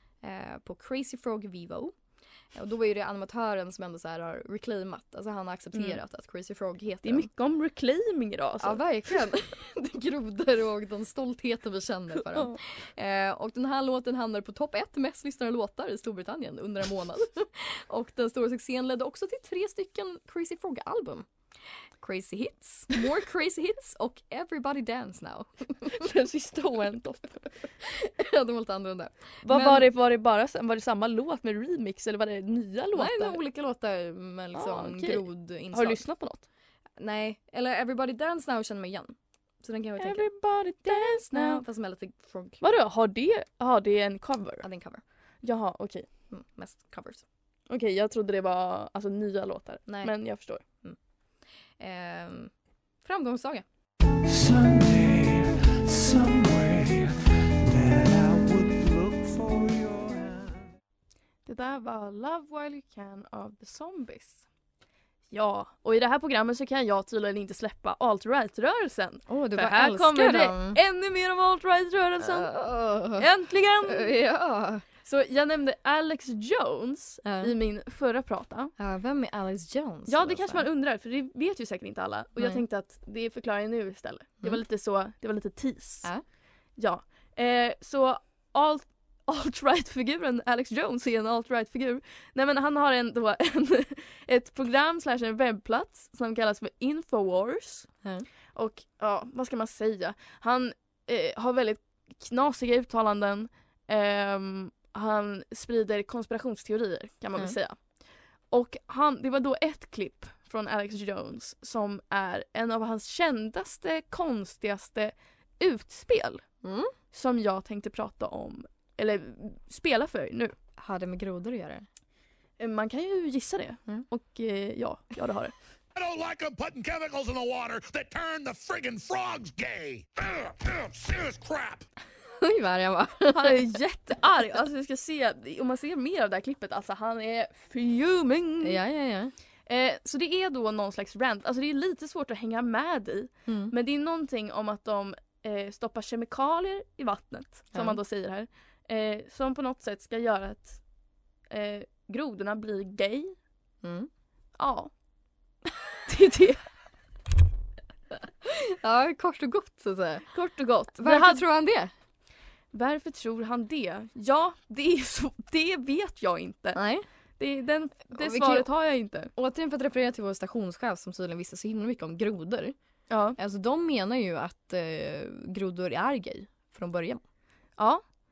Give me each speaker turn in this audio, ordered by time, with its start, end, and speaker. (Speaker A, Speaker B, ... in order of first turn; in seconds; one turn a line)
Speaker A: 0.2-2.0
Speaker A: 2.5-7.3
Speaker B: 5.7-6.0
Speaker B: 7.0-9.3
Speaker A: 8.6-21.3
Speaker B: 12.2-12.6
Speaker A: 22.0-25.9
Speaker B: 25.9-27.5
Speaker A: 27.8-29.9
Speaker B: 29.4-33.4
Speaker A: 33.0-36.1
Speaker B: 34.5-36.5
Speaker A: 37.0-42.6
Speaker B: 40.0-41.7
Speaker B: 42.6-44.7
Speaker A: 44.6-45.0
Speaker B: 45.4-46.1
Speaker A: 46.3-47.2
Speaker B: 47.7-50.6
Speaker A: 49.9-53.6
Speaker C: 54.3-60.7
Speaker B: 61.5-64.5
Speaker B: 65.3-72.6
Speaker A: 69.3-70.8
Speaker A: 72.2-73.3
Speaker B: 73.1-74.1
Speaker A: 73.8-74.8
Speaker B: 75.0-78.7
Speaker A: 77.2-77.5
Speaker A: 78.8-80.7
Speaker B: 80.1-120.6
Speaker A: 82.4-82.6
Speaker A: 116.6-116.9
Speaker A: 120.8-121.9
Speaker B: 122.6-125.6
Speaker D: 126.0-131.9
Speaker A: 132.4-133.6
Speaker B: 133.3-138.8
Speaker A: 138.6-139.3
Speaker B: 139.6-153.4
Speaker A: 143.5-143.7
Speaker A: 147.7-148.0
Speaker A: 153.8-154.1
Speaker B: 154.6-154.9
Speaker B: 156.1-156.7
Speaker A: 158.4-160.3
Speaker B: 160.3-161.5
Speaker A: 160.9-161.9
Speaker B: 162.7-169.3
Speaker A: 166.7-167.1
Speaker A: 168.1-168.7
Speaker A: 169.3-172.8
Speaker B: 173.1-173.4
Speaker A: 173.3-177.2
Speaker B: 177.8-178.1